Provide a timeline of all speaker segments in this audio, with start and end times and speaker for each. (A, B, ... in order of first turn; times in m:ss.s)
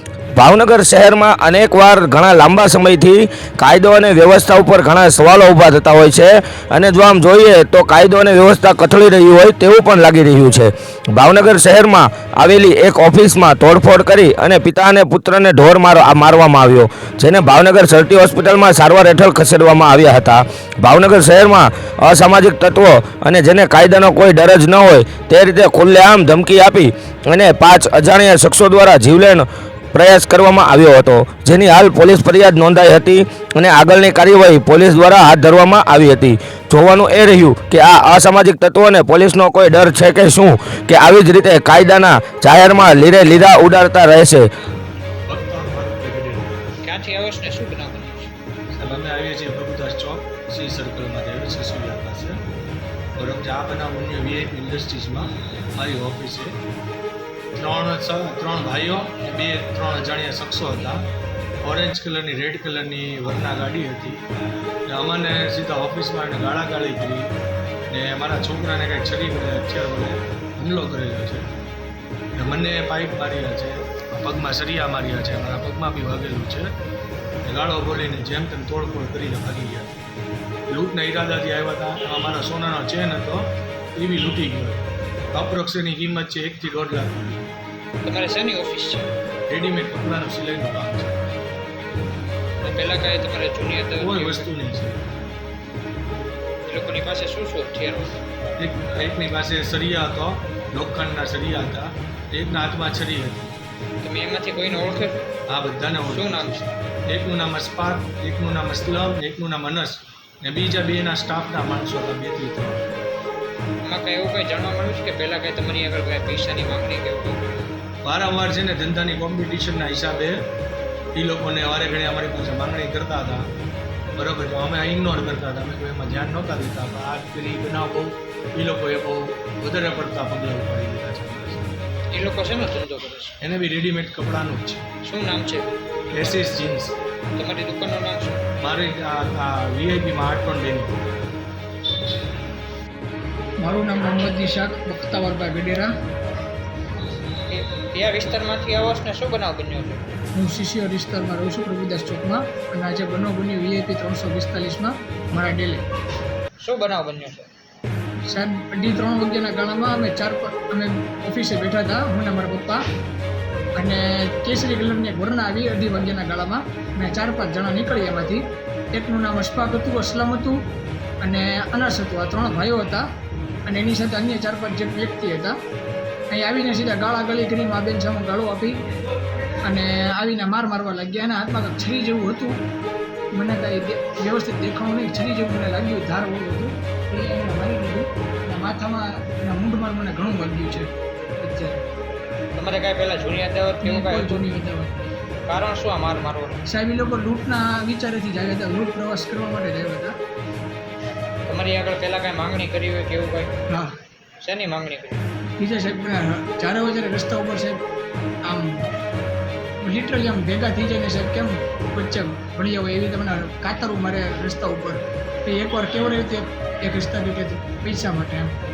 0:00.4-0:44.5 A
0:45.3-0:46.6 B
0:46.8-0:48.3 C
0:48.7-0:52.4 B
0:53.2-0:56.6 B
0:57.5-1:04.2 B
1:04.9-1:07.3 B
1:07.9-1:11.5 B
1:12.4-1:16.7 B
1:17.4-1:20.0 B
1:20.7-1:27.5 B
1:28.0-1:29.1 C
1:29.5-1:31.2 B
1:32.6-1:34.5 C
1:34.0-1:35.0 B
1:36.7-1:38.2 C
1:38.6-1:43.6 B
1:44.0-1:45.3 C
1:45.5-1:52.9 B
1:46.0-1:46.6 C
1:53.8-1:57.6 C
1:58.0-2:00.5 B
2:01.2-2:03.5 B
2:04.2-2:11.8 B
2:12.1-2:13.3 C
2:13.4-2:14.9 B
2:15.0-2:16.5 C
2:16.1-2:16.9 B
2:17.4-2:18.4 C
2:18.6-2:21.0 B
2:23.6-2:25.9 D
2:27.5-2:30.0 C
2:30.3-2:35.8 D
2:36.6-2:37.5 C
2:38.3-2:42.8 D
2:43.8-2:50.6 D
2:51.2-2:53.0 D
2:53.7-2:55.6 D
2:56.3-2:58.8 D
2:59.6-3:02.6 D
3:03.3-3:11.8 D
3:12.5-3:14.5 C
3:13.8-3:15.1 D
3:15.5-3:16.6 C
3:16.7-3:20.1 D
3:21.5-3:23.5 C
3:23.7-3:23.9 D
3:24.4-3:25.2 C
3:25.6-3:27.8 D
3:28.5-3:28.9 D
3:29.8-3:38.5 D